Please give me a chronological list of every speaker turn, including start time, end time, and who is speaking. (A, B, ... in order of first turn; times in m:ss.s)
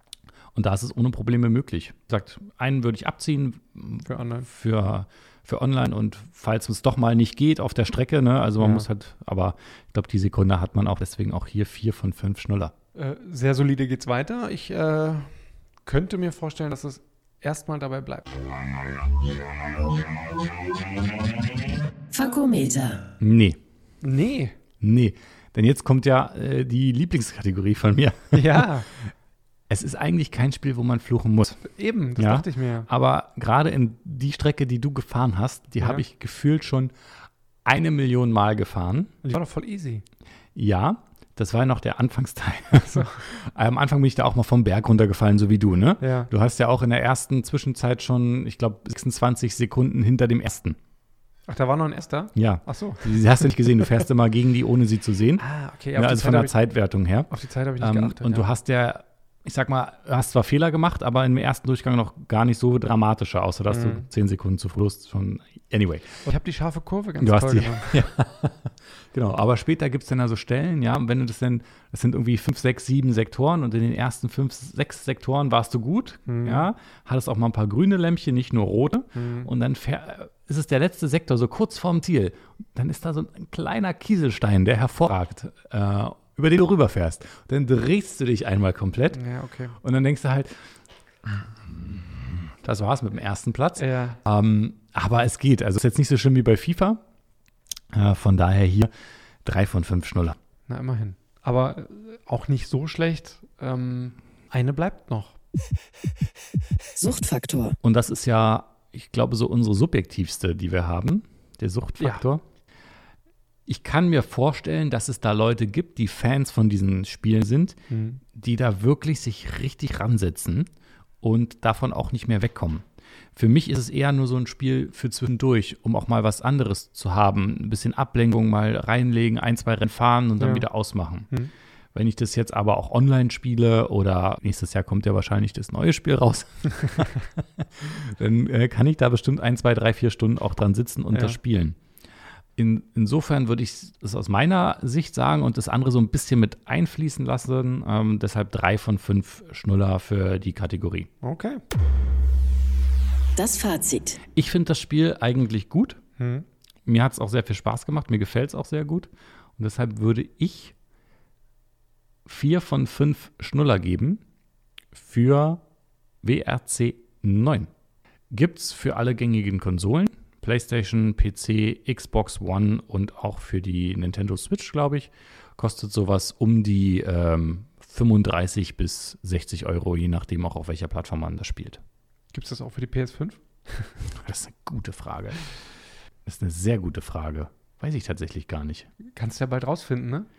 0:00.5-0:12.7 A
0:04.0-0:04.5 B
0:08.6-0:08.8 B
0:12.9-0:15.3 B
0:15.8-0:18.3 B
0:22.1-0:23.1 C
0:23.2-0:23.6 A
0:24.0-0:24.6 B
0:24.8-0:29.1 A
0:28.3-0:28.9 B
0:29.7-0:31.6 A
0:31.6-0:32.9 B
0:32.2-0:36.9 A
0:37.6-0:39.2 A
0:39.2-0:40.0 B
0:40.5-0:50.8 A
0:42.7-0:43.2 B
0:46.0-0:46.3 B
0:51.5-0:53.2 B
0:52.4-0:55.4 A
0:55.4-0:56.5 B
0:55.9-1:06.2 A
0:57.3-0:58.5 B
1:03.7-1:04.0 B
1:06.2-1:08.2 B
1:07.2-1:29.2 A
1:16.2-1:16.7 B
1:19.1-1:19.5 B
1:29.1-1:29.8 B
1:29.8-1:30.6 A
1:31.7-1:32.0 A
1:32.5-1:37.0 A
1:33.8-1:34.2 B
1:37.9-1:38.9 A
1:39.4-1:40.4 A
1:40.7-1:45.4 B
1:47.0-1:47.8 C
1:47.8-1:52.4 A
1:52.0-1:52.2 B
1:53.7-1:57.8 A
1:57.9-1:58.2 B
1:58.3-2:00.7 A
2:01.2-2:11.3 A
2:10.4-2:10.7 B
2:11.9-2:21.8 A
2:21.1-2:21.4 B
2:22.6-2:31.1 A
2:31.2-2:31.6 B
2:33.4-2:34.2 C
2:34.3-2:36.0 A
2:36.2-2:36.4 B
2:36.8-2:40.7 A
2:42.2-2:44.2 A
2:44.9-2:45.6 A
2:46.2-2:47.7 A
2:48.3-3:01.8 A
3:02.3-3:04.0 B
3:04.1-3:05.4 A
3:06.2-3:08.9 A
3:09.1-3:10.3 B